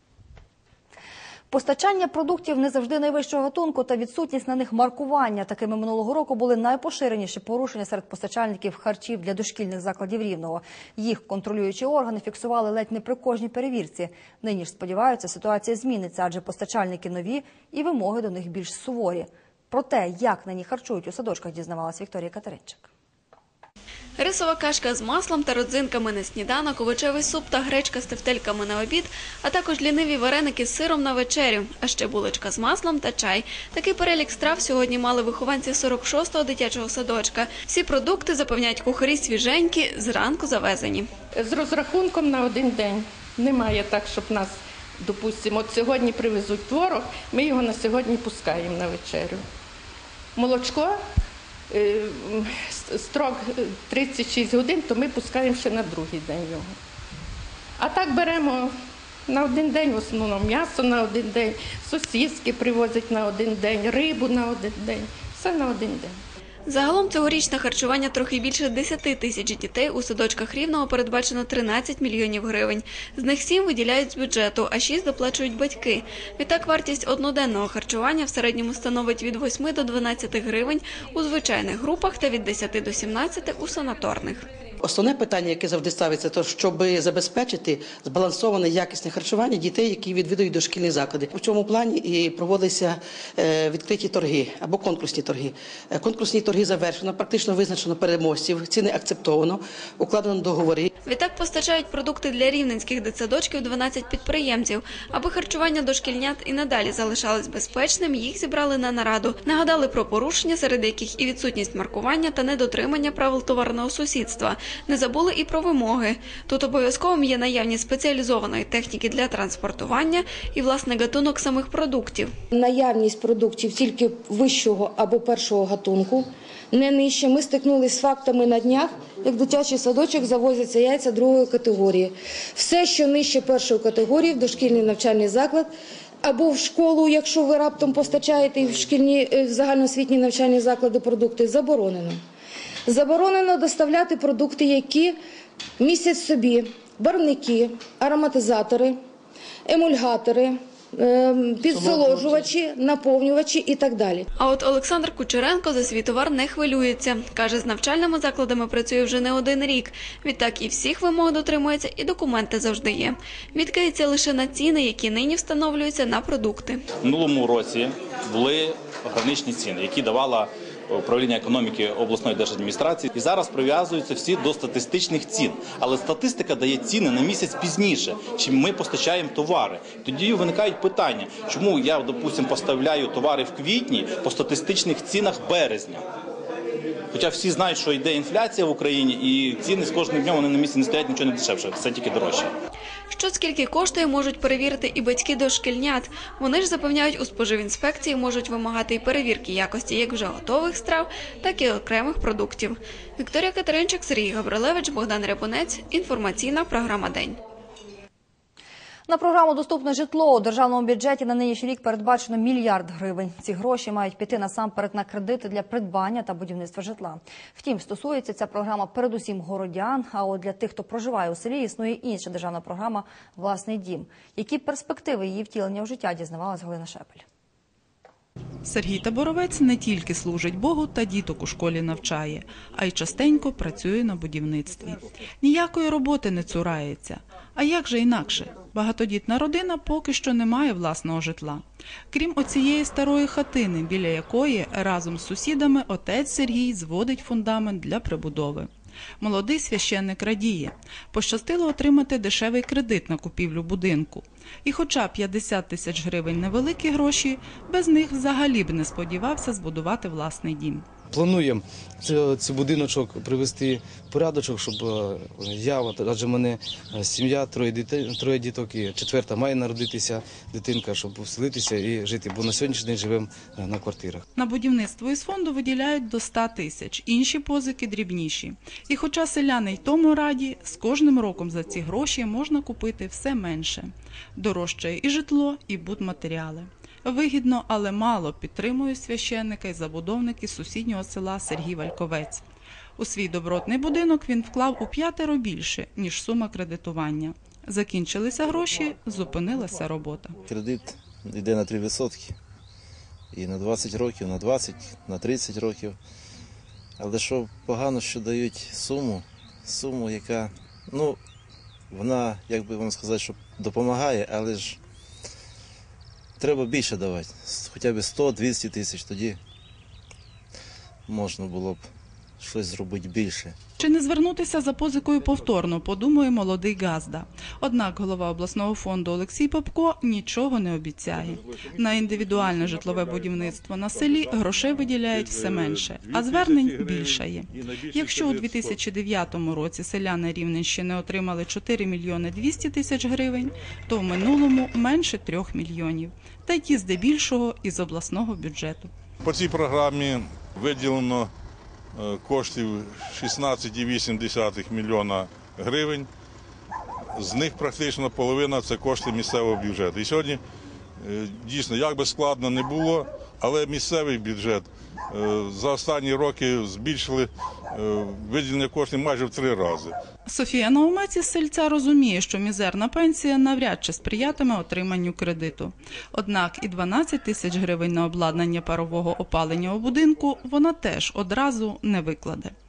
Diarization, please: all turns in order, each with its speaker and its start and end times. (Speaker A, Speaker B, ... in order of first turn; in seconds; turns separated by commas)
Speaker A: 1.5-22.9, Speaker B: 24.2-41.1, Speaker C: 41.4-49.4, Speaker C: 50.4-51.0, Speaker C: 51.7-56.7, Speaker C: 57.8-58.7, Speaker C: 59.3-66.2, Speaker B: 66.7-84.5, Speaker D: 84.8-100.9, Speaker B: 101.0-122.3, Speaker E: 122.5-135.7, Speaker E: 136.2-142.2, Speaker E: 142.9-145.2, Speaker E: 145.8-149.0, Speaker E: 149.7-154.3, Speaker B: 154.4-166.8, Speaker F: 167.0-186.0, Speaker F: 187.1-192.5, Speaker B: 193.1-207.4, Speaker A: 209.1-227.2, Speaker G: 228.7-248.7, Speaker G: 249.2-260.9, Speaker H: 261.1-274.2, Speaker G: 274.4-292.4, Speaker G: 293.0-300.4, Speaker I: 300.5-302.3, Speaker I: 303.3-306.0, Speaker I: 307.0-311.2, Speaker I: 311.9-314.8, Speaker I: 316.4-319.4, Speaker I: 321.1-321.8, Speaker I: 322.4-323.6, Speaker G: 323.8-348.9, Speaker J: 331.2-338.8, Speaker J: 349.2-351.3, Speaker J: 352.0-356.1, Speaker J: 357.2-360.4, Speaker J: 361.0-369.9, Speaker G: 370.3-382.5